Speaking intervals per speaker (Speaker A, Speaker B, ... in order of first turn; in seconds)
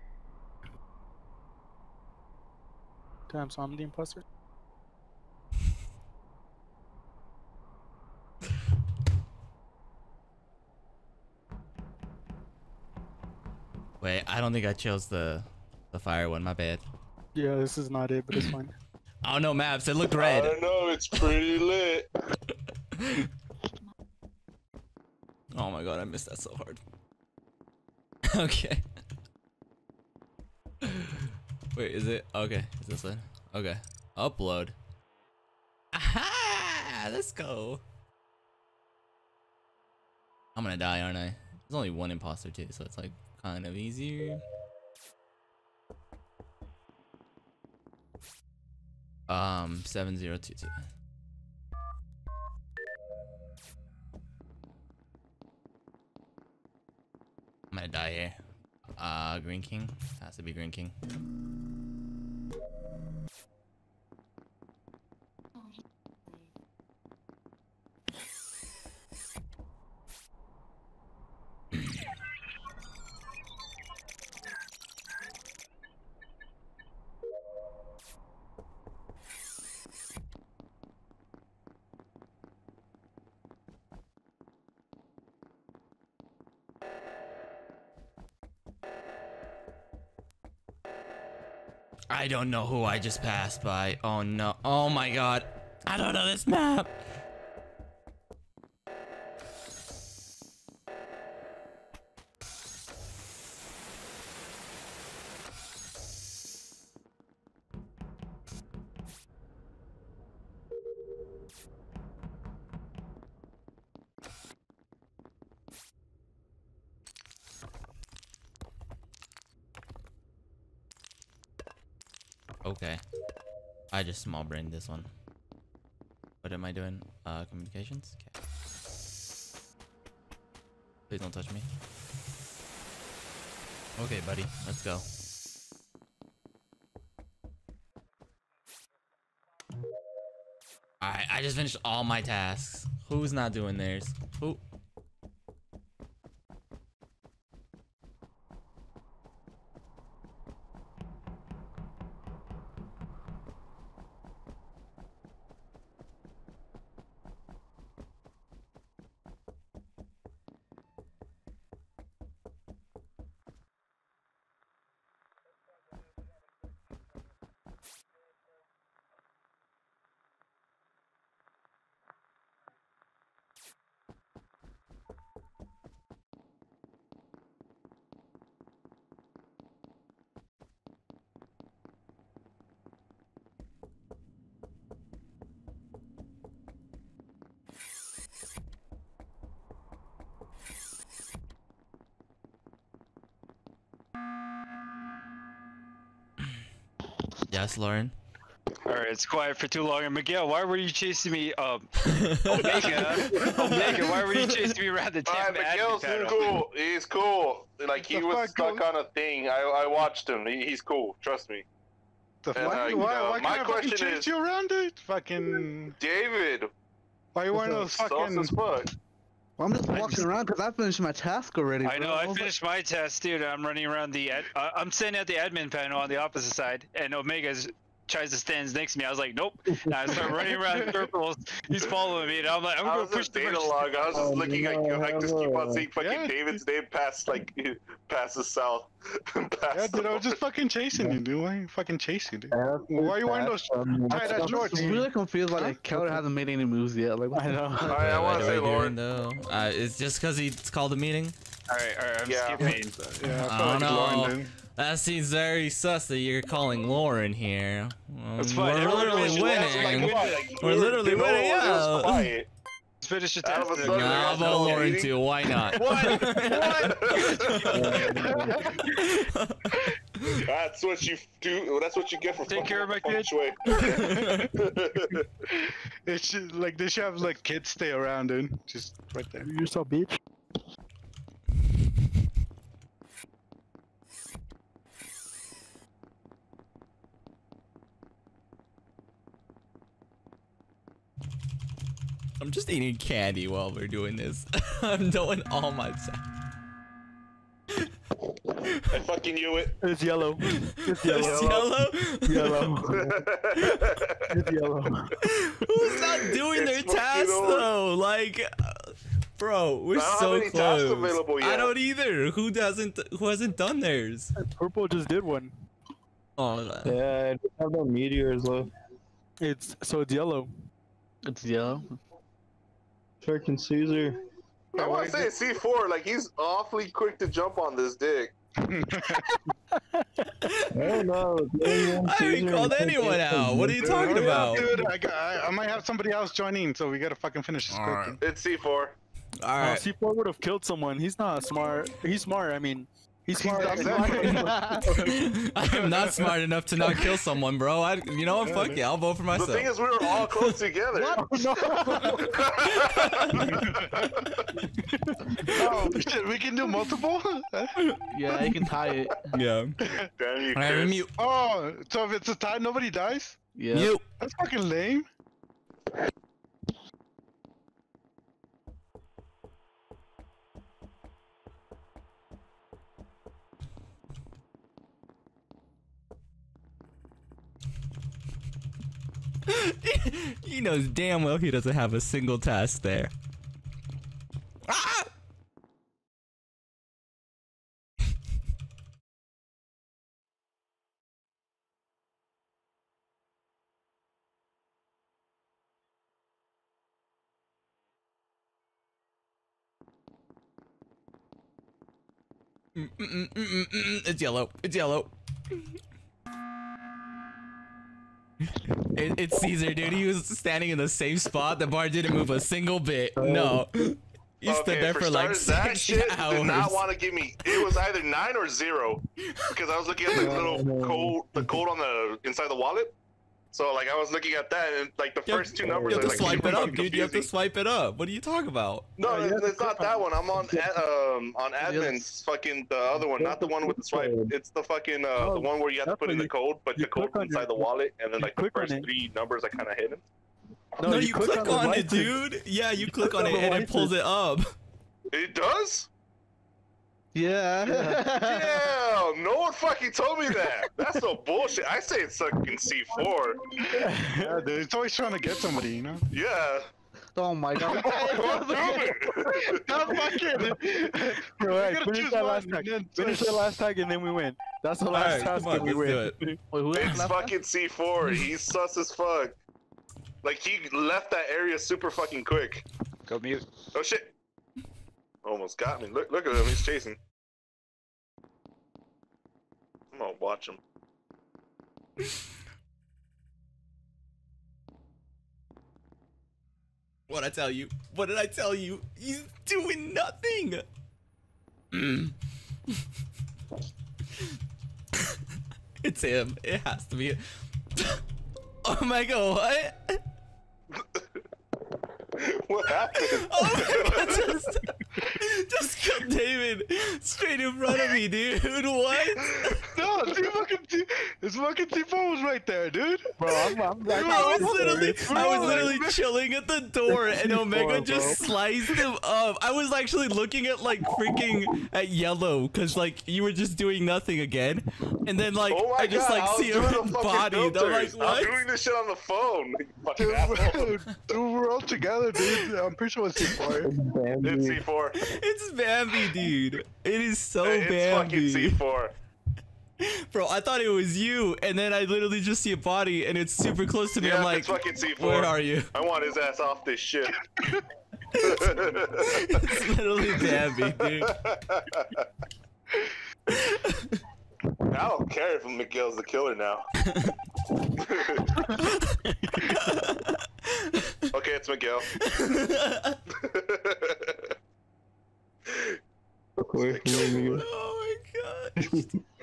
Speaker A: 3.3-4.2, 17.4-18.7, 244.6-245.0, 245.5-246.2, 247.3-248.5, 279.4-280.2, 299.8-301.6, 302.2-303.2, 304.3-305.1, 314.4-315.5, 319.4-320.5, 339.6-344.8, 354.9-355.3, 435.2-438.9, 440.8-442.2, 443.0-443.9, 453.8-454.4, 461.4-466.4, 559.1-559.5
Speaker B: 14.0-16.8, 19.2-20.6, 22.9-23.3, 25.5-26.8, 28.3-28.8, 30.8-34.8, 35.9-37.8, 40.6-44.4, 49.3-50.7, 57.7-58.4, 59.0-60.9, 92.1-96.9, 122.6-123.0, 123.9-125.1, 126.4-128.3, 131.1-131.7, 134.0-135.1, 141.0-144.6, 197.5-198.1, 202.1-204.6, 248.0-251.4, 253.4-262.3, 263.9-268.1, 268.8-270.4, 273.8-274.5, 292.4-296.3, 300.4-302.7, 303.6-303.9, 305.2-314.3, 316.4-317.0, 331.6-334.7, 337.7-338.2, 339.4-339.9, 344.0-350.6, 352.9-353.4, 355.4-355.9, 357.8-358.7, 359.3-359.7, 360.5-361.1, 363.7-364.0, 379.5-383.1, 384.7-385.1, 402.8-405.1, 408.9-416.9, 417.4-417.8, 419.3-419.5, 425.3-428.9, 440.8-444.5, 464.9-466.3, 487.1-490.6, 491.7-492.1, 495.8-497.2, 497.8-498.0, 498.6-500.0, 503.0-509.6, 514.0-528.4, 535.0-538.6, 539.8-545.7, 548.1-551.1, 553.3-554.0, 558.6-561.0, 562.0-563.0, 567.3-569.0
Speaker C: 20.2-22.1, 202.7-203.2, 205.2-211.7, 212.5-214.3, 216.0-216.7, 217.8-218.9, 232.8-240.3, 247.9-249.0, 252.3-252.7, 258.8-262.5, 263.4-267.8, 270.4-275.2, 298.9-299.8, 301.2-301.7, 302.8-304.4, 306.5-307.7, 309.9-311.7, 324.7-328.3, 338.2-338.9, 349.3-354.2, 360.2-361.1, 414.4-422.9, 423.5-427.3, 429.0-440.1, 445.1-445.9, 447.6-453.4, 456.1-456.7, 458.0-459.6, 466.7-469.4, 470.2-472.6, 473.7-474.1, 475.2-477.0, 479.9-480.6, 500.8-501.2, 502.2-504.2, 525.5-530.7, 534.2-535.0, 537.4-538.9, 544.0-547.1, 548.2-549.2, 550.2-552.1, 554.7-556.7, 557.8-558.4, 561.1-561.9, 563.2-564.2, 565.5-565.8, 566.6-567.4
Speaker D: 198.8-206.6, 221.8-234.2, 251.7-252.9, 258.4-260.6, 263.0-265.0, 272.5-273.3, 473.1-473.5
Speaker E: 208.0-208.9, 212.4-216.0, 217.3-218.6, 230.7-231.0, 236.0-236.6, 239.7-245.0, 252.6-254.5, 268.0-268.6, 275.5-279.5, 324.8-325.3, 328.6-329.2, 333.9-338.2, 343.4-344.6, 345.7-346.2, 348.4-348.8, 353.4-353.9, 355.6-357.8, 361.2-363.4, 364.1-365.1, 453.6-456.0, 457.6-463.4, 509.7-516.0, 530.0-533.7
Speaker F: 212.6-213.0, 217.5-217.8, 219.6-222.6, 244.1-248.1, 321.2-322.0, 350.9-352.2, 358.1-359.2, 363.6-363.9, 431.6-432.2, 447.1-448.8, 457.2-459.0, 466.5-467.4, 513.2-515.8
Speaker G: 234.1-235.9, 242.5-244.9, 267.7-268.6, 316.9-318.7, 323.2-324.2, 330.7-334.3, 413.2-413.7, 420.1-421.6, 425.6-426.7, 430.3-430.8, 433.0-434.4, 514.5-514.9, 517.1-518.2, 533.6-534.7, 566.4-567.4